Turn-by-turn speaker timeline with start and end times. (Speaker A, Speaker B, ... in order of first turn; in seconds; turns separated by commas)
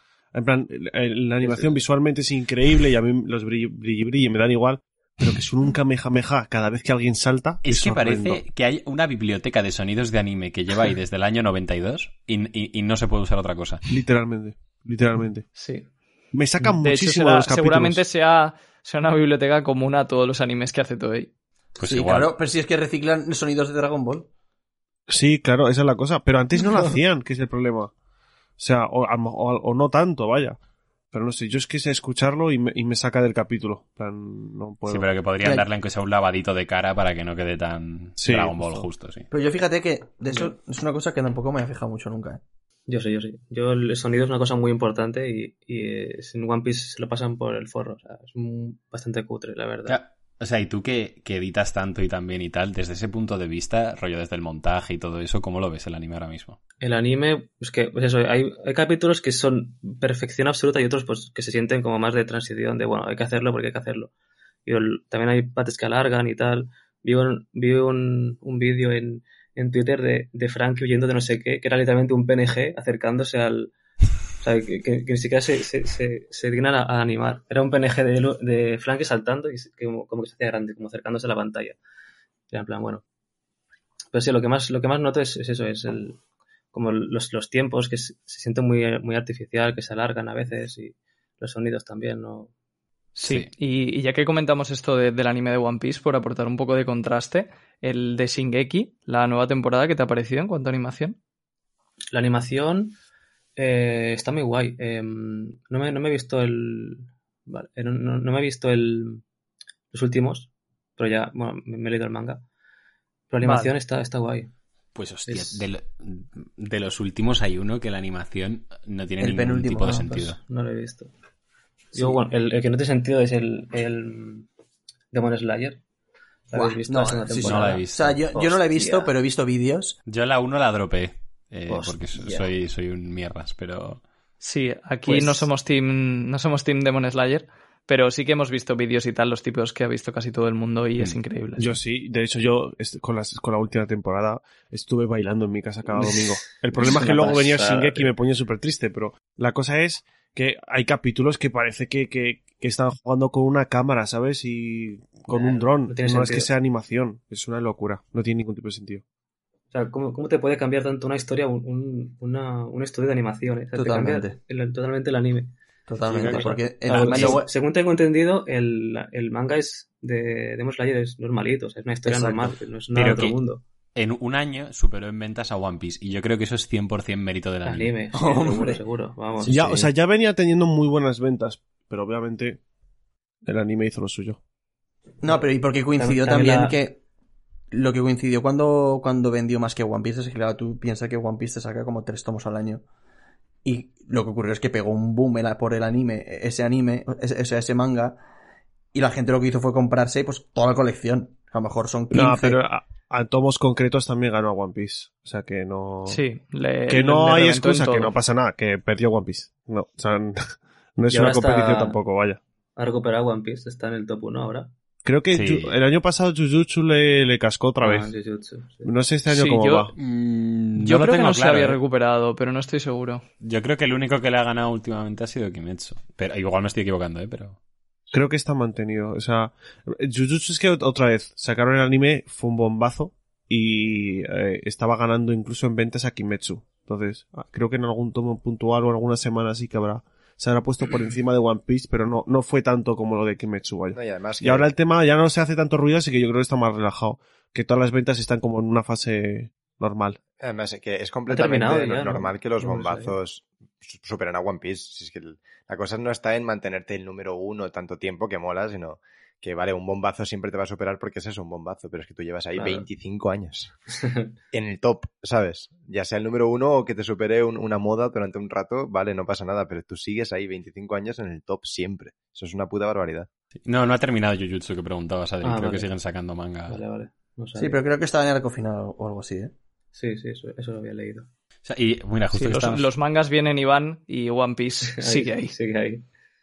Speaker A: 0.3-8.4, Speaker B: 1.4-1.8, Speaker C: 7.6-13.8, Speaker A: 13.9-15.5, Speaker D: 15.5-15.9, Speaker A: 16.3-18.0, Speaker D: 16.8-21.3, Speaker C: 21.8-22.3, Speaker E: 21.8-24.3, Speaker A: 25.1-27.9, Speaker A: 28.6-30.6, Speaker A: 31.1-35.1, Speaker C: 34.9-39.3, Speaker A: 38.2-38.9, Speaker E: 39.3-42.4, Speaker B: 42.9-50.0, Speaker C: 49.9-56.6, Speaker B: 56.8-64.1, Speaker B: 64.7-73.7, Speaker B: 74.4-81.8, Speaker B: 82.5-83.0, Speaker B: 84.1-86.2, Speaker B: 86.7-92.5, Speaker D: 93.1-101.2, Speaker B: 102.1-103.0, Speaker B: 103.5-109.2, Speaker B: 109.9-112.4, Speaker B: 113.3-114.5, Speaker D: 113.4-113.7, Speaker C: 114.9-120.4, Speaker B: 115.3-115.6, Speaker E: 119.2-120.3, Speaker B: 120.3-121.1, Speaker B: 121.9-124.5, Speaker B: 125.1-125.8, Speaker B: 126.5-129.1, Speaker E: 126.5-129.9, Speaker C: 127.4-128.2, Speaker C: 130.1-134.0, Speaker B: 131.7-132.5, Speaker D: 134.4-141.7, Speaker B: 135.1-135.5, Speaker A: 141.6-159.0, Speaker B: 145.9-148.1, Speaker B: 155.3-156.5, Speaker B: 159.7-165.5, Speaker E: 163.7-164.4, Speaker E: 165.9-167.5, Speaker C: 166.1-167.4, Speaker B: 166.1-173.6, Speaker E: 172.1-172.6, Speaker C: 172.9-173.4, Speaker C: 173.9-177.9, Speaker B: 177.6-179.8, Speaker E: 178.1-178.8, Speaker E: 179.4-179.9, Speaker A: 179.4-182.6, Speaker A: 183.4-184.4, Speaker E: 185.2-187.0, Speaker B: 186.0-186.8, Speaker E: 187.7-192.8, Speaker E: 193.6-198.2, Speaker E: 198.9-202.6, Speaker A: 202.1-206.2, Speaker D: 206.0-208.1, Speaker A: 206.9-212.4, Speaker B: 211.1-212.0, Speaker B: 212.8-214.7, Speaker A: 215.0-218.1, Speaker C: 215.3-215.7, Speaker B: 217.8-218.9, Speaker A: 218.8-219.9, Speaker D: 219.3-219.9, Speaker C: 219.9-221.8, Speaker D: 220.8-223.2, Speaker C: 223.4-227.6, Speaker A: 228.1-250.2, Speaker F: 243.9-244.7, Speaker F: 250.4-263.7, Speaker B: 251.3-253.2, Speaker B: 262.5-262.9, Speaker B: 264.0-264.3, Speaker F: 264.5-273.3, Speaker C: 273.6-276.8, Speaker B: 275.4-275.9, Speaker B: 276.7-277.8, Speaker E: 277.6-279.5, Speaker B: 279.9-281.3, Speaker C: 281.6-282.9, Speaker D: 282.3-285.5, Speaker B: 284.9-286.1